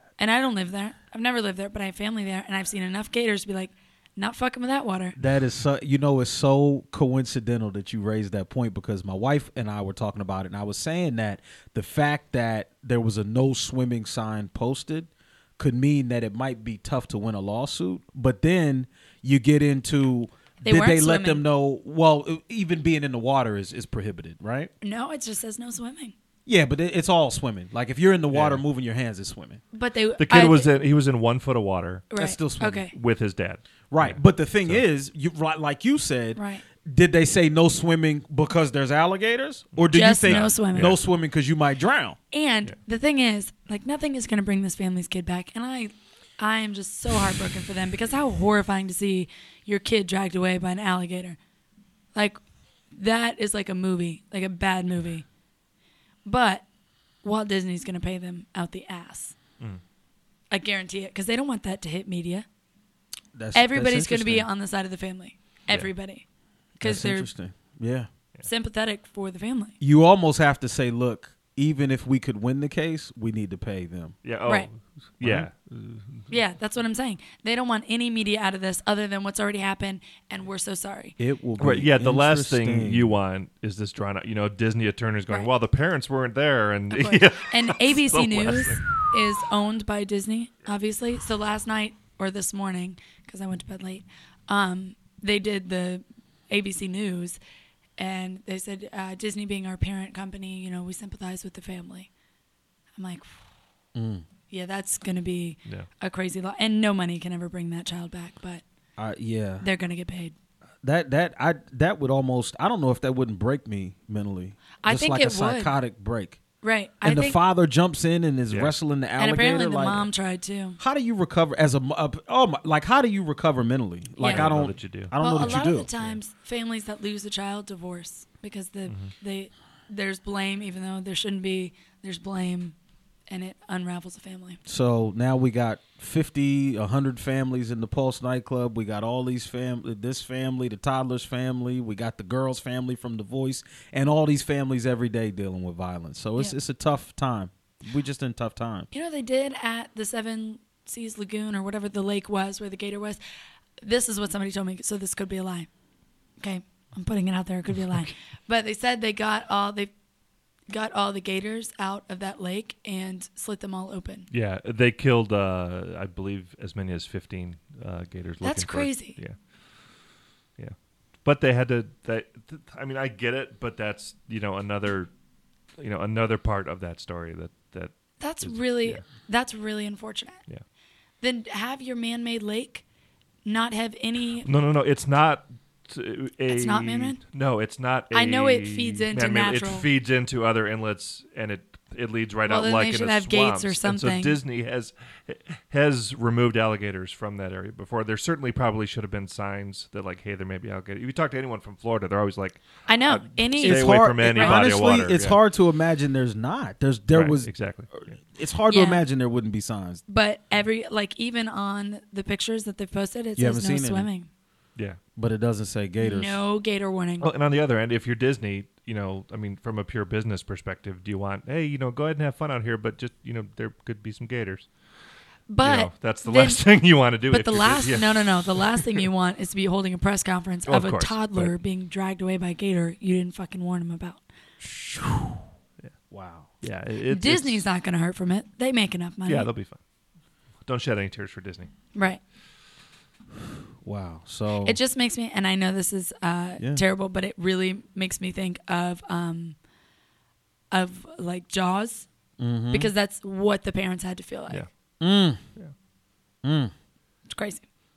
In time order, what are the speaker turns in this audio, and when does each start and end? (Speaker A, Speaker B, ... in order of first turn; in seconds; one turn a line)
Speaker A: 0.2-5.2
Speaker B: 5.2-24.7
Speaker A: 20.6-21.4
Speaker A: 24.8-26.1
Speaker B: 26.5-29.6
Speaker C: 28.3-28.6
Speaker A: 29.7-30.7
Speaker C: 30.2-32.1
Speaker A: 32.1-32.9
Speaker B: 32.1-32.9
Speaker C: 32.9-34.9
Speaker B: 33.9-42.2
Speaker A: 36.4-36.6
Speaker C: 39.8-41.0
Speaker A: 39.9-40.9
Speaker A: 42.3-51.4
Speaker A: 52.1-52.4
Speaker A: 52.9-55.2
Speaker A: 56.2-56.6
Speaker A: 57.2-59.4
Speaker A: 60.5-62.5
Speaker B: 63.3-64.5
Speaker A: 63.5-66.2
Speaker A: 66.8-67.3
Speaker B: 66.8-68.1
Speaker A: 68.4-69.7
Speaker B: 69.8-74.2
Speaker C: 74.2-76.3
Speaker B: 75.2-75.5
Speaker A: 76.3-81.2
Speaker B: 81.2-83.1
Speaker C: 81.6-89.0
Speaker A: 86.9-97.4
Speaker A: 98.0-102.1
Speaker A: 103.0-103.4
Speaker B: 103.9-104.2
Speaker A: 104.5-108.6
Speaker B: 109.0-109.7
Speaker A: 109.6-110.3
Speaker B: 110.8-116.4
Speaker A: 114.8-115.8
Speaker A: 116.6-117.4
Speaker B: 117.0-120.1
Speaker C: 118.5-118.8
Speaker A: 119.2-120.8
Speaker B: 120.8-125.9
Speaker A: 124.2-124.5
Speaker C: 124.2-126.2
Speaker A: 125.2-132.8
Speaker A: 133.3-134.6
Speaker B: 134.7-148.9
Speaker A: 148.9-153.2
Speaker A: 153.8-155.7
Speaker A: 156.4-159.9
Speaker A: 160.7-164.3
Speaker C: 164.3-169.4
Speaker A: 168.4-169.2
Speaker C: 170.6-175.1
Speaker C: 175.8-179.0
Speaker A: 178.2-180.4
Speaker A: 181.2-182.8
Speaker A: 183.4-184.5
Speaker C: 184.4-205.4
Speaker A: 186.5-187.2
Speaker A: 188.1-189.9
Speaker A: 192.5-194.4
Speaker A: 202.9-204.7
Speaker B: 203.6-210.0
Speaker C: 207.1-208.2
Speaker A: 208.7-209.0
Speaker A: 210.1-214.3
Speaker B: 213.4-214.1
Speaker B: 215.2-216.4
Speaker A: 216.0-217.3
Speaker C: 217.2-224.7
Speaker A: 225.5-226.6
Speaker C: 225.6-229.0
Speaker A: 227.3-234.2
Speaker C: 230.7-231.5
Speaker B: 234.6-235.4
Speaker B: 236.1-236.5
Speaker C: 236.6-237.6
Speaker A: 237.1-239.5
Speaker C: 239.3-239.8
Speaker C: 240.6-241.7
Speaker A: 241.9-242.2
Speaker B: 243.8-244.8
Speaker A: 244.6-249.6
Speaker A: 250.7-252.1
Speaker B: 252.4-252.9
Speaker A: 252.7-254.7
Speaker B: 255.0-255.4
Speaker B: 256.4-256.7
Speaker A: 257.3-257.6